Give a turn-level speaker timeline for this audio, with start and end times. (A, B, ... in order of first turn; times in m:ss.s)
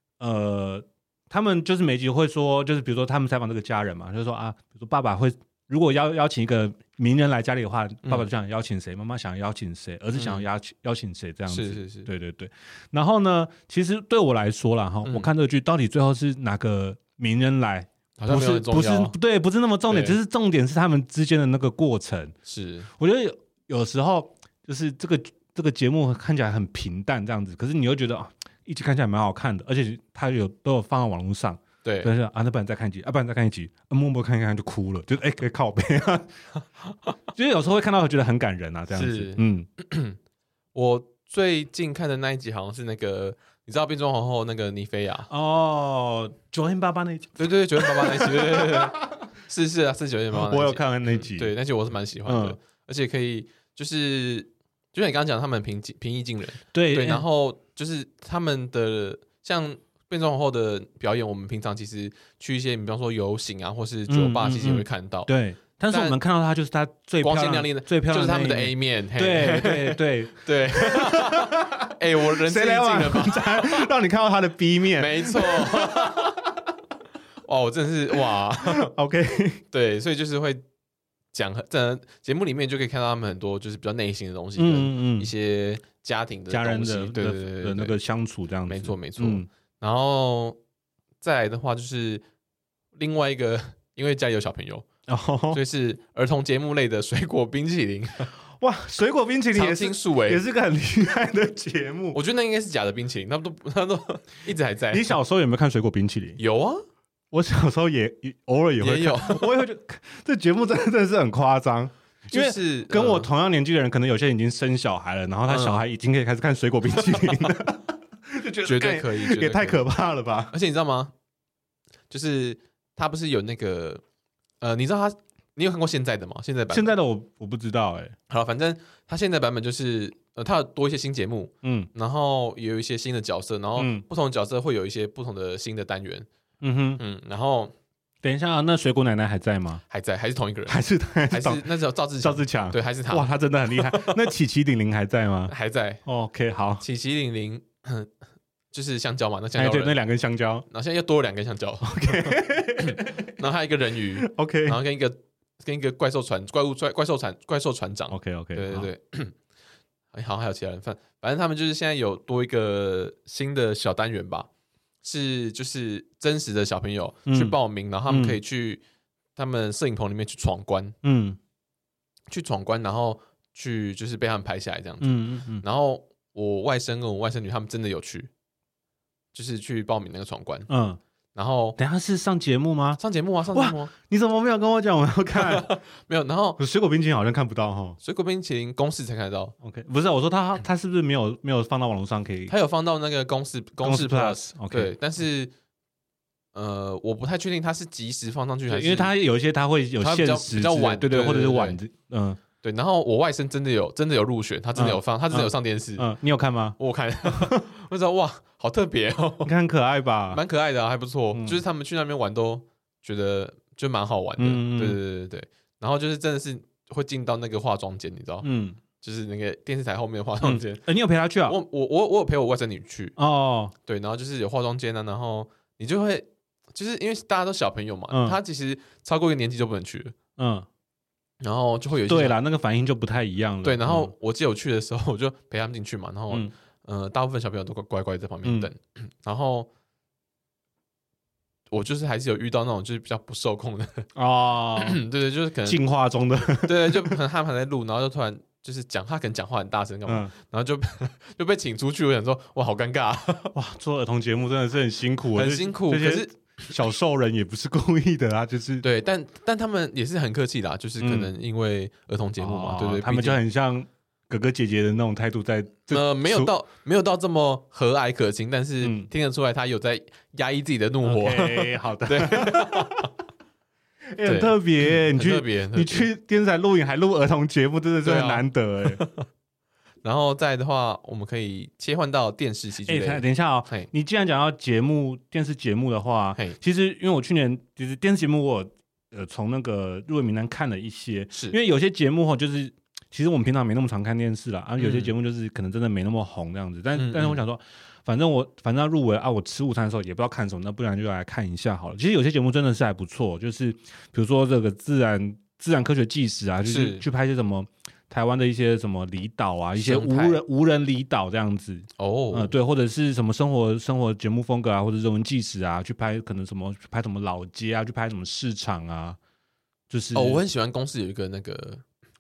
0:00.2-0:22.3 A
0:10.2-0:10.4 B
0:11.5-0:12.1 B
0:18.2-0:19.1 B
0:19.9-0:20.2 B
0:22.5-0:22.9 B
0:22.9-0:36.3 A
0:31.8-0:32.1 B
0:37.3-0:39.7 A
0:38.9-0:40.2 B
0:40.7-0:45.3 B
0:45.3-0:49.2 A
0:47.4-1:05.3 B
0:50.3-0:51.6 A
0:52.2-0:52.6 A
0:56.7-0:57.2 A
1:04.1-1:16.5 A
1:05.9-1:06.2 B
1:07.2-1:13.9 B
1:15.0-1:16.4 B
1:17.4-1:18.9 B
1:18.7-1:19.6 A
1:19.7-1:20.6 B
1:21.3-1:28.0 B
1:24.6-1:25.3 A
1:26.5-1:29.5 A
1:28.7-1:30.6 B
1:31.2-1:32.2 B
1:33.0-1:34.9 B
1:35.1-1:35.6 A
1:35.5-1:38.3 B
1:38.6-1:42.2 A
1:39.5-1:40.4 B
1:42.1-1:45.1 B
1:44.9-1:46.4 A
1:46.4-1:46.8 B
1:47.3-2:00.6 A
1:48.8-1:49.6 B
1:52.3-1:53.3 B
1:55.5-1:55.8 B
1:57.1-1:57.5 B
1:58.6-1:59.8 B
2:00.5-2:01.1 B
2:02.1-2:04.0 B
2:04.6-2:06.9 B
2:06.7-2:08.2 A
2:08.3-2:16.3 B
2:11.6-2:11.9 A
2:13.8-2:14.0 A
2:16.6-2:17.0 A
2:17.0-2:17.7 B
2:18.2-2:19.8 A
2:19.9-2:24.3 B
2:20.7-2:21.7 A
2:22.2-2:25.5 A
2:25.5-2:26.0 B
2:26.0-2:26.8 A
2:26.8-2:28.1 B
2:28.7-2:30.0 B
2:29.6-2:30.6 A
2:30.7-2:39.4 B
2:31.8-2:33.4 A
2:34.2-2:34.8 A
2:38.1-2:38.9 A
2:40.1-2:44.5 B
2:45.0-2:48.8 B
2:47.3-2:47.6 A
2:48.1-2:48.4 A
2:49.4-2:51.0 B
2:51.0-2:51.4 A
2:52.3-2:58.3 B
2:55.0-2:55.6 A
2:59.3-3:00.7 B
3:00.7-3:01.0 A
3:01.4-3:01.8 B
3:01.8-3:03.0 A
3:03.0-3:03.9 B
3:03.5-3:05.8 A
3:05.4-3:06.6 B
3:06.6-3:08.0 A
3:08.0-3:09.5 B
3:09.6-3:12.5 A
3:12.5-3:15.5 B
3:13.8-3:15.0 A
3:16.5-3:19.1 B
3:18.7-3:22.4 A
3:20.0-3:21.8 B
3:22.6-3:26.1 B
3:24.8-3:27.6 A
3:26.8-3:29.5 B
3:29.4-3:30.4 A
3:30.3-3:40.8 B
3:31.3-3:31.6 A
3:34.4-3:35.0 A
3:38.4-3:38.8 A
3:40.4-3:41.6 A
3:41.5-3:43.2 B
3:43.2-3:43.7 A
3:43.8-3:50.2 B
3:48.1-3:48.4 A
3:50.4-3:50.7 A
3:51.4-3:52.4 B
3:52.0-3:54.1 A
3:53.6-3:59.7 B
3:58.4-3:58.7 A
4:01.7-4:04.1 B
4:04.2-4:05.0 A
4:04.8-4:05.8 B
4:05.6-4:07.2 A
4:06.6-4:13.5 B
4:10.1-4:10.3 A
4:13.5-4:18.8 A
4:15.4-4:16.7 B
4:18.8-4:23.4 B
4:21.0-4:21.3 A
4:22.4-4:26.5 A
4:25.9-4:33.1 B
4:28.8-4:29.1 A
4:31.0-4:33.1 A
4:34.1-4:39.0 A
4:34.2-4:36.1 B
4:38.0-4:39.3 B
4:40.0-4:43.9 B
4:42.9-5:19.2 A
4:51.3-4:51.6 B
4:54.8-4:55.1 B
4:57.0-4:57.4 B
5:06.6-5:07.0 B
5:09.8-5:10.4 B
5:12.0-5:12.5 B
5:19.9-5:20.4 A
5:20.2-5:21.8 B